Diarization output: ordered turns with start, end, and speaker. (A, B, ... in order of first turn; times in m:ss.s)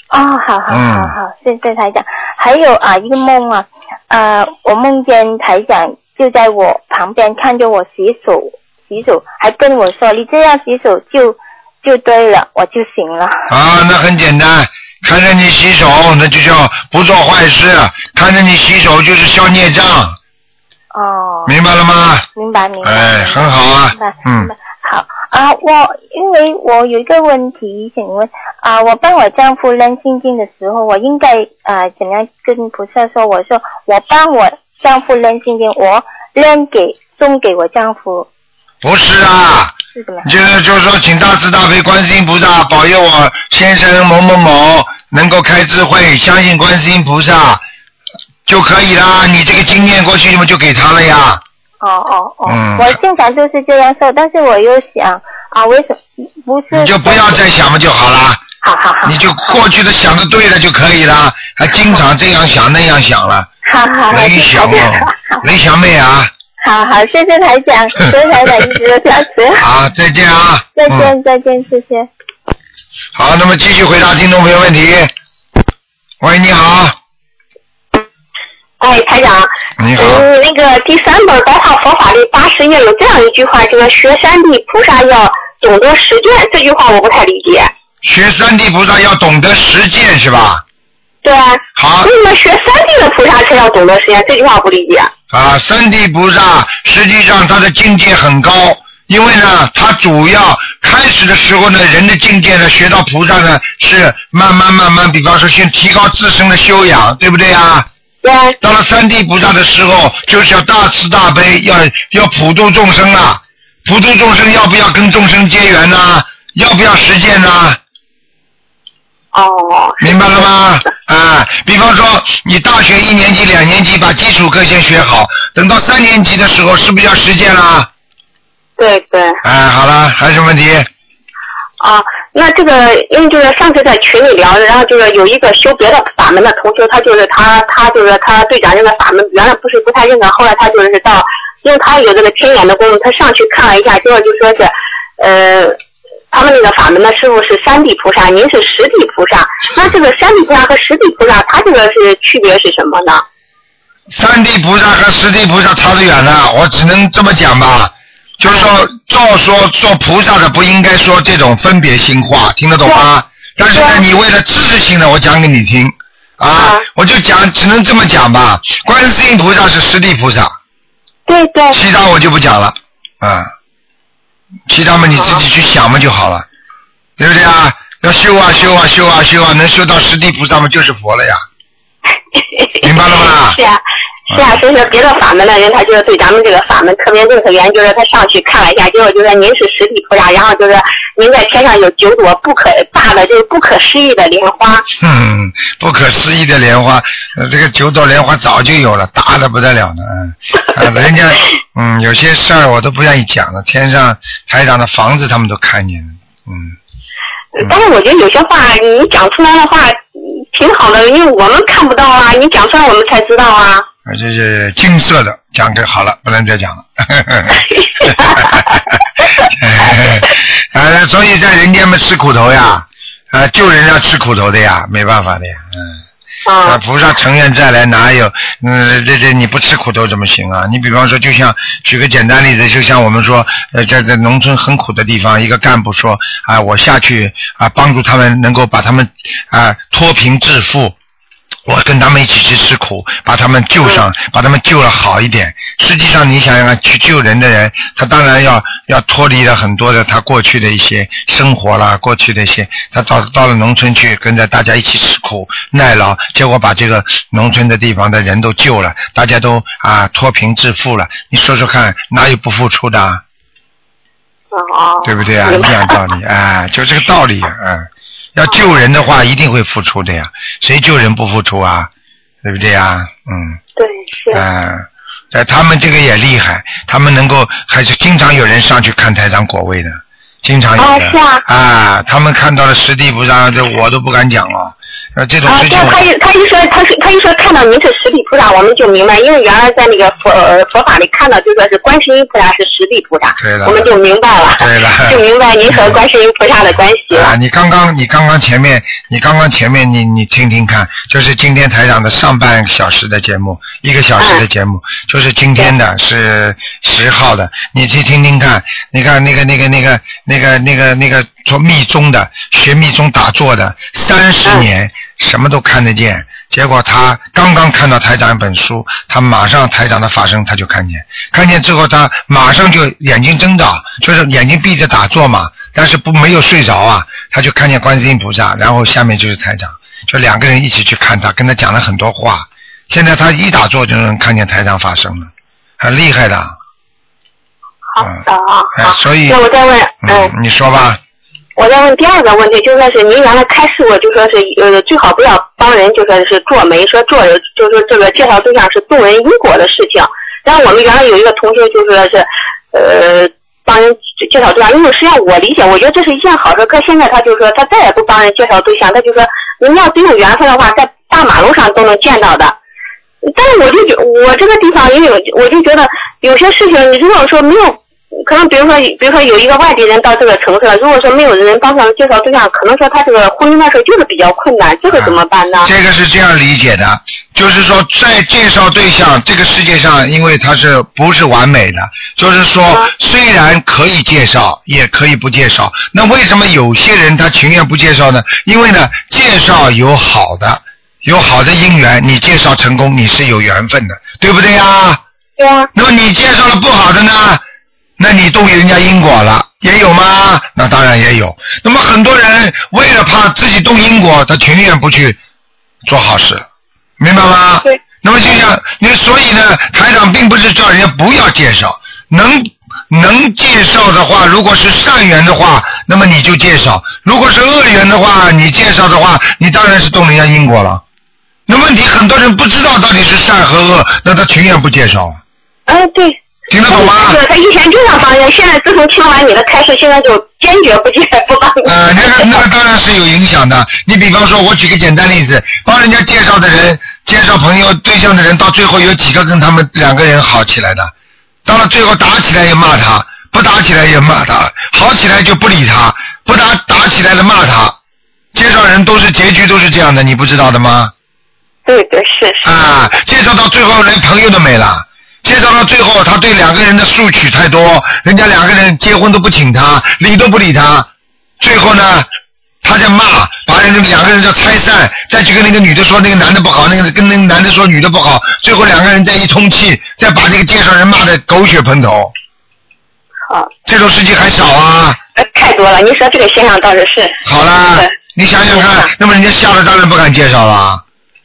0:00.1-0:13.5 A
0:00.7-0:01.2 B
0:13.5-0:20.2 B
0:20.9-0:21.6 A
0:21.5-0:22.3 B
0:22.4-0:38.3 A
0:22.8-0:24.5 B
0:38.8-0:39.7 B
0:40.0-0:40.3 A
0:40.2-0:47.6 B
0:48.5-0:51.4 B
0:51.8-0:57.4 A
0:52.5-0:53.0 B
0:56.7-0:58.4 B
0:58.6-0:59.6 A
0:59.0-1:03.5 B
1:03.6-1:05.4 A
1:04.1-1:06.3 B
1:06.6-1:09.6 A
1:09.6-1:11.1 B
1:10.8-1:12.1 A
1:13.2-1:15.1 B
1:16.2-1:17.0 B
1:18.8-1:27.7 C
1:19.8-1:20.3 B
1:28.0-1:30.6 B
1:31.2-1:35.1 C
1:31.8-1:32.1 B
1:35.3-1:47.9 B
1:48.2-1:48.6 C
1:48.6-1:57.8 B
1:59.3-2:00.5 C
2:00.0-2:07.9 B
2:08.8-2:09.4 C
2:09.4-2:10.9 B
2:11.8-2:25.8 C
2:26.3-2:33.2 C
2:34.1-2:50.5 B
2:38.4-2:38.7 C
2:43.7-2:44.0 C
2:46.6-2:46.9 C
2:51.3-2:51.8 C
2:51.7-2:53.5 B
2:54.7-2:56.5 B
2:55.2-2:55.4 C
2:57.2-3:01.4 B
3:02.4-3:03.8 C
3:02.8-3:03.6 B
3:04.3-3:04.6 B
3:04.3-3:14.9 C
3:15.0-3:26.8 B
3:27.6-3:33.9 C
3:34.1-3:38.6 B
3:37.7-3:38.6 C
3:39.4-3:46.0 B
3:46.5-3:46.8 C
3:46.6-4:01.0 B
4:01.7-4:23.2 B
4:24.5-4:26.0 C
4:25.0-4:31.9 B
4:32.4-4:33.6 B
4:33.8-4:34.5 C
4:34.3-4:46.0 B
4:40.8-4:41.4 C
4:45.5-4:57.3 C
4:53.4-4:53.9 B
4:54.6-4:56.0 B
4:57.1-5:36.5 B
5:04.2-5:04.4 C
5:37.9-5:40.3 C
5:38.8-5:39.4 B
5:40.0-5:41.0 B
5:41.6-6:02.6 C
6:03.2-6:15.7 C
6:14.9-6:35.0 B
6:35.4-6:35.7 C
6:35.7-6:37.4 B
6:38.0-6:45.2 B
6:45.9-6:46.5 B
6:47.0-7:00.8 B
7:01.5-7:05.2 B
7:05.7-7:12.4 C
7:06.5-7:07.2 B
7:11.6-7:20.9 B
7:21.5-7:27.8 B
7:28.3-7:30.9 B
7:31.7-7:32.5 C
7:32.4-7:40.9 B
7:41.4-7:42.1 B
7:42.6-7:52.1 B
7:53.7-7:55.0 B
7:55.2-7:57.2 C
7:57.2-8:00.8 B
7:58.5-7:58.9 C